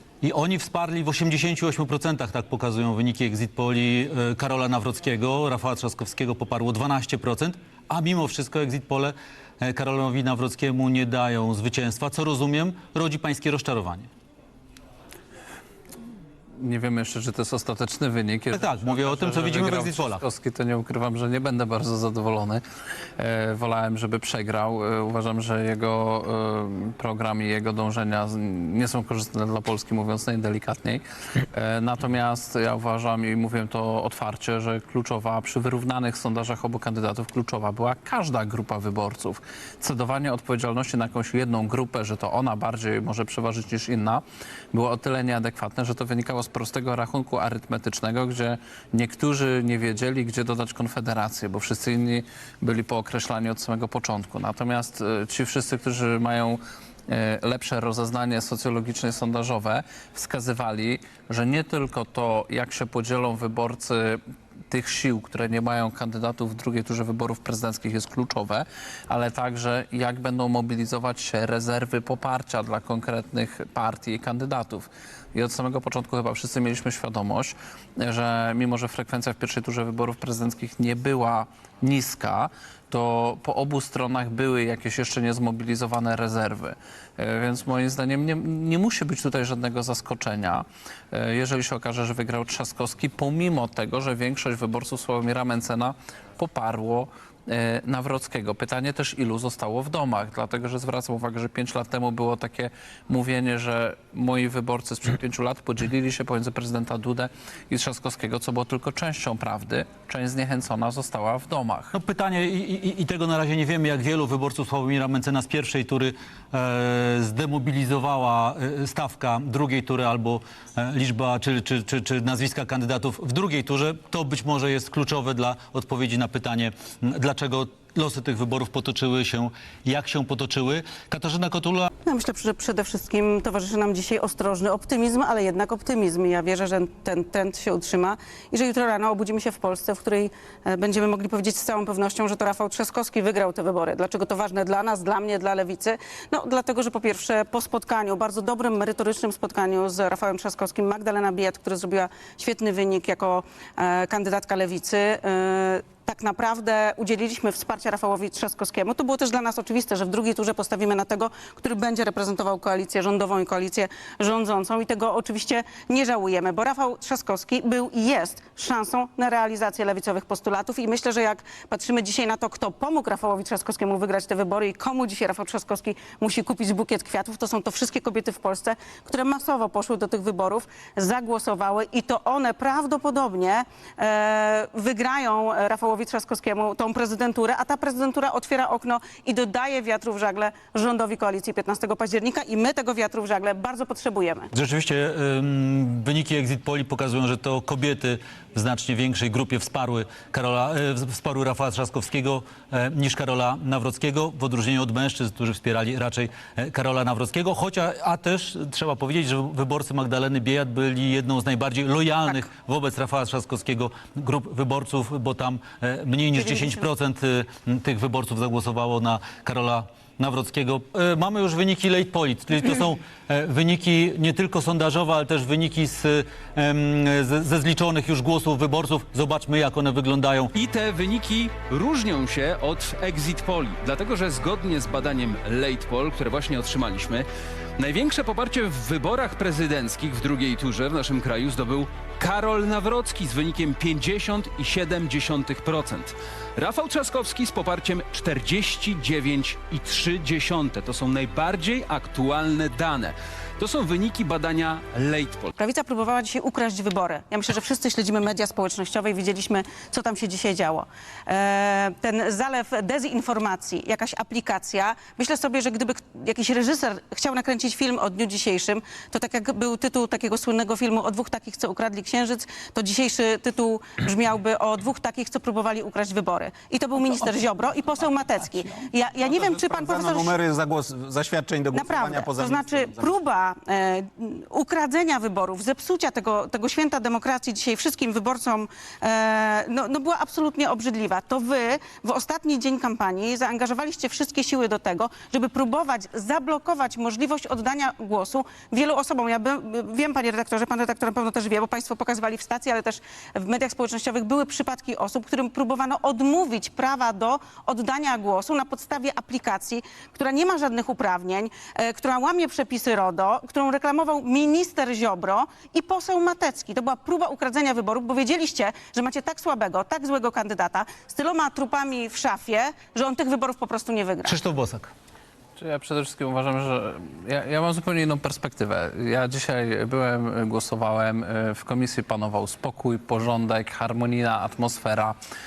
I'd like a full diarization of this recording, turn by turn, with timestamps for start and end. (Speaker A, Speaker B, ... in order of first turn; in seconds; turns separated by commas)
Speaker A: 0.2-14.1, Speaker B: 16.6-22.6, Speaker A: 18.5-20.2, Speaker B: 23.2-111.9, Speaker A: 111.9-131.9, Speaker C: 132.1-194.5, Speaker A: 194.5-230.5, Speaker C: 216.4-216.7, Speaker D: 230.5-237.3, Speaker D: 237.8-255.5, Speaker C: 255.6-280.3, Speaker E: 279.2-283.2, Speaker C: 281.7-324.4, Speaker A: 324.2-324.9, Speaker B: 325.6-335.2